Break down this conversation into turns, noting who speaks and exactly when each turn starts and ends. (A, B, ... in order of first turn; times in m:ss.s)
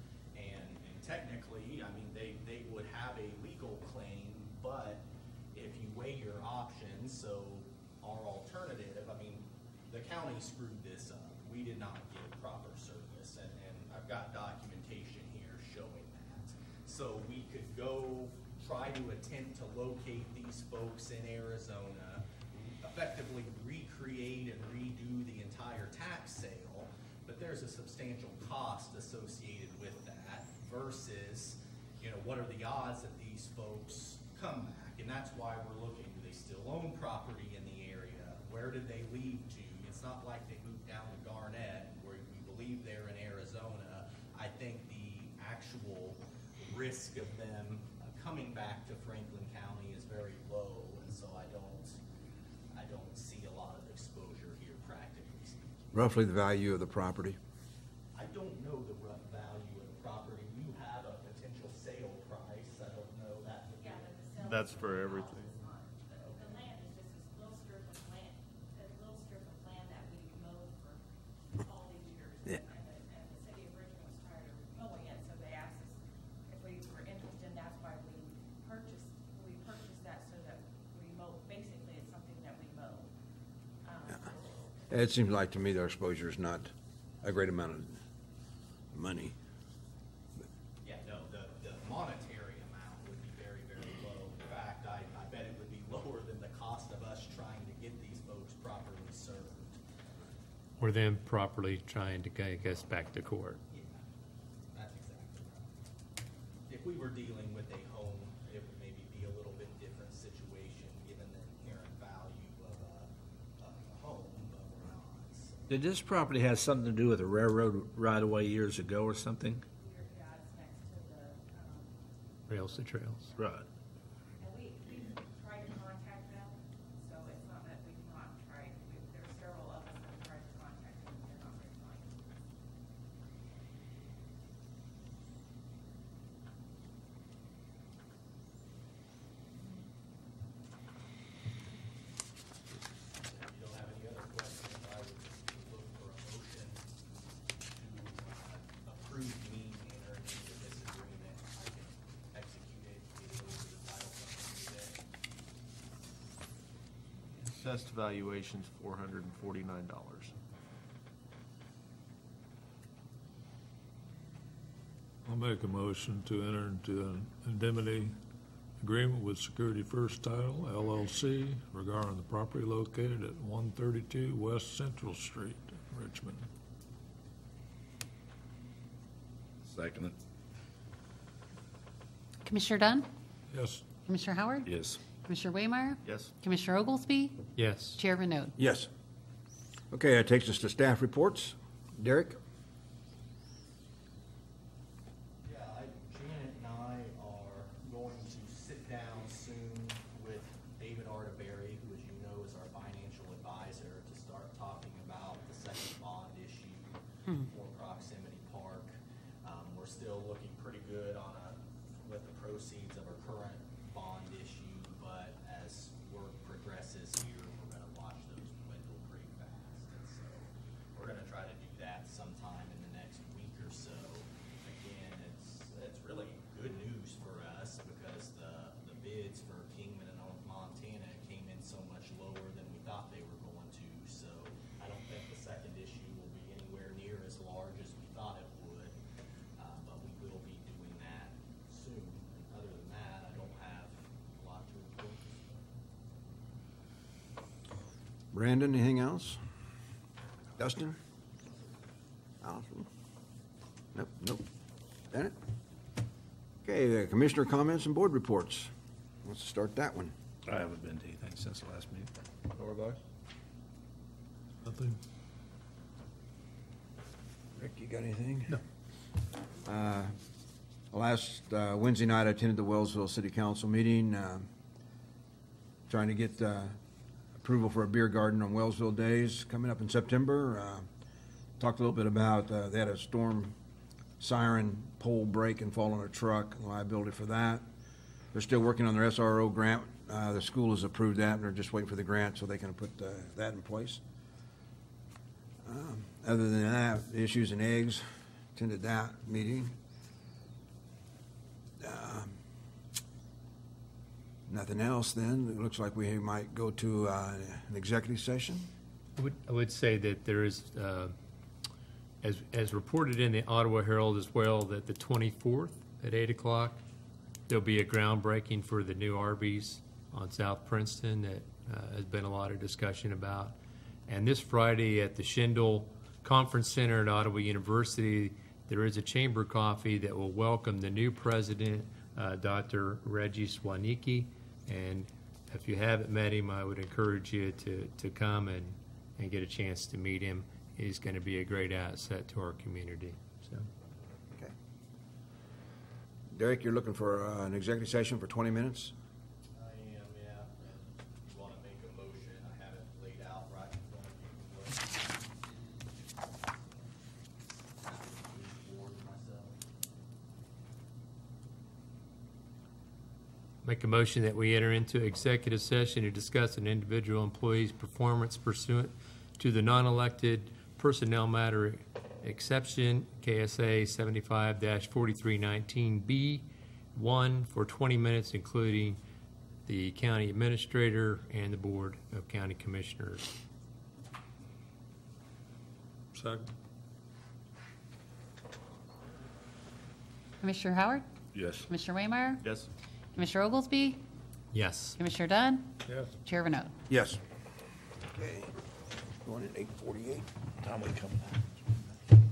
0:00.4-0:52.0 A
0:52.7-0:55.7 A
0:55.9-0:57.4 B
0:58.1-1:04.3 A
1:03.8-1:11.0 C
1:04.4-1:05.7 D
1:06.2-1:06.7 A
1:11.6-1:23.1 C
1:23.8-1:24.4 C
1:24.9-1:26.7 B
1:27.2-1:28.0 B
1:28.9-1:29.3 B
1:30.8-1:39.8 A
1:40.8-1:43.6 E
1:43.7-1:44.0 A
1:44.7-1:45.7 A
1:46.7-1:55.8 A
1:55.7-1:59.6 F
1:59.8-2:02.0 C
2:02.5-2:03.3 E
2:02.5-2:03.6 C
2:03.4-2:03.6 F
2:04.4-2:12.1 C
2:23.3-2:26.8 A
2:27.7-2:35.0 A
2:37.4-2:40.3 D
2:45.2-2:48.2 G
2:48.8-2:56.5 G
2:59.6-3:00.1 F
3:02.4-3:03.1 H
3:03.5-3:03.8 G
3:04.0-3:07.5 H
3:04.6-3:05.0 F
3:06.0-3:06.3 D
3:07.5-3:08.0 E
3:08.0-3:08.5 H
3:08.6-3:08.9 B
3:09.9-3:12.4 B
3:15.4-3:59.0 A
3:59.6-4:05.6 A
4:08.3-4:09.4 B
4:10.6-4:11.0 B
4:12.4-4:12.9 B
4:13.9-4:14.4 B
4:16.6-4:18.7 B
4:19.2-4:20.1 B
4:20.5-4:22.1 F
4:22.5-4:23.0 D
4:24.6-4:25.0 G
4:27.6-4:28.6 B
4:29.6-4:30.1 B
4:30.9-4:34.4 B
4:35.9-4:36.7 B
4:37.4-4:40.9 B
4:41.6-4:43.5 B
4:44.2-4:47.6 B
4:48.3-4:54.0 B
4:55.6-4:59.7 B
5:01.8-5:02.4 B
5:04.5-5:08.7 B
5:09.2-5:11.1 E
5:12.2-5:16.8 E
5:17.5-5:23.6 E
5:24.1-5:43.6 E
5:46.3-5:48.9 B
5:49.6-5:55.4 A
5:56.3-5:56.8 A
5:57.8-5:59.6 A
6:03.6-6:19.0 E
6:19.6-6:23.3 E
6:26.1-6:26.5 G
6:30.4-6:31.0 H
6:31.3-6:31.7 F
6:31.7-6:32.4 H
6:32.4-6:32.7 D
6:33.1-6:34.0 H
6:34.5-6:35.0 E
6:35.0-6:36.7 H
6:35.9-6:36.1 G
6:36.9-6:37.2 B
6:38.1-6:38.5 B
6:39.2-6:40.3 B
6:40.6-6:41.4 F